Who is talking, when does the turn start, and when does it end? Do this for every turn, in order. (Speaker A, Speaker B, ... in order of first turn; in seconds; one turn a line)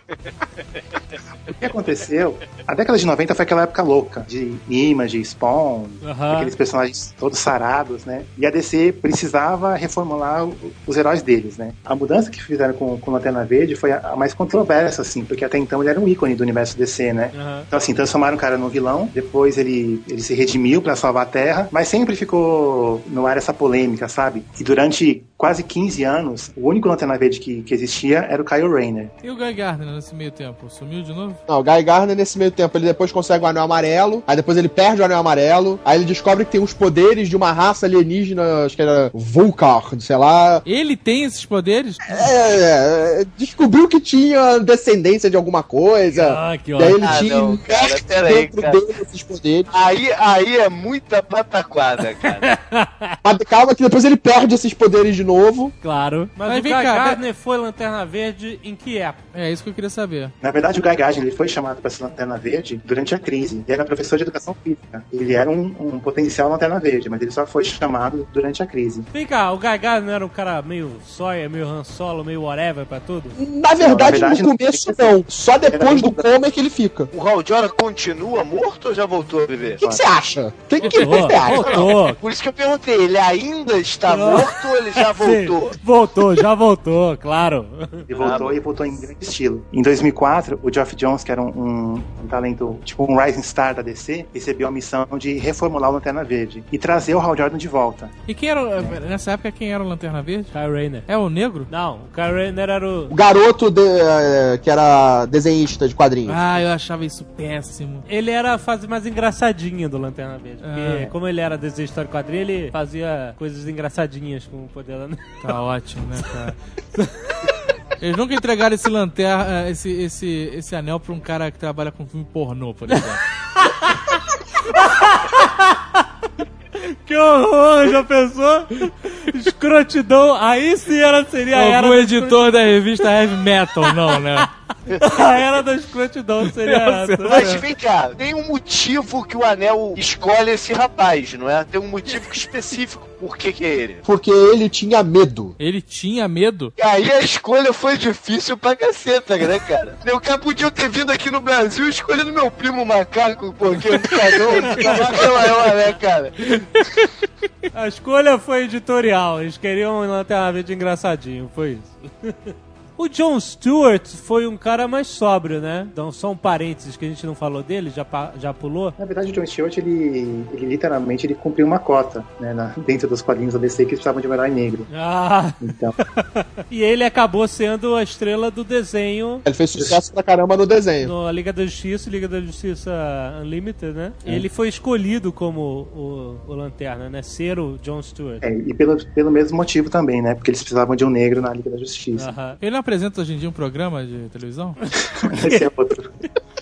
Speaker A: 1.5-29.1
Speaker B: 6.0-6.5
Speaker B: 17.3-17.7
Speaker C: 29.2-31.4
Speaker D: 31.5-40.6
Speaker C: 40.7-42.2
Speaker D: 42.1-49.7
Speaker B: 46.1-47.0
Speaker E: 47.0-48.8
Speaker E: 49.7-52.5
Speaker B: 52.2-53.2
Speaker D: 53.2-55.7
Speaker B: 55.8-59.2
Speaker C: 56.5-57.2
Speaker C: 59.3-60.3
Speaker A: 60.4-69.1
Speaker B: 69.1-73.4
Speaker D: 73.4-77.1
Speaker A: 73.8-76.3
Speaker E: 77.1-79.8
Speaker D: 79.8-81.9
Speaker B: 80.8-82.2
Speaker E: 81.4-85.8
Speaker B: 84.1-88.1
Speaker A: 88.1-98.1
Speaker E: 88.2-88.6
Speaker C: 98.3-100.5
Speaker B: 100.5-101.1
Speaker C: 101.1-101.7
Speaker B: 101.7-103.1
Speaker D: 103.1-106.4
Speaker C: 106.3-108.1
Speaker B: 108.1-115.5
Speaker C: 110.6-111.1
Speaker C: 115.4-116.6
Speaker B: 117.0-117.5
Speaker C: 118.0-123.2
Speaker B: 123.6-124.2
Speaker B: 124.7-126.1
Speaker B: 126.8-133.1
Speaker C: 131.5-134.5
Speaker B: 133.8-137.6
Speaker C: 136.4-137.6
Speaker E: 137.3-144.0
Speaker D: 144.0-145.6
Speaker C: 145.6-146.7
Speaker E: 146.8-156.4
Speaker B: 154.5-155.1
Speaker B: 157.7-169.0
Speaker A: 169.0-174.9
Speaker B: 174.9-179.4
Speaker A: 175.6-175.9
Speaker D: 179.5-181.1
Speaker A: 179.8-180.0
Speaker B: 181.0-188.5
Speaker A: 188.4-192.3
Speaker B: 192.2-192.6
Speaker C: 192.6-194.8
Speaker A: 195.1-196.2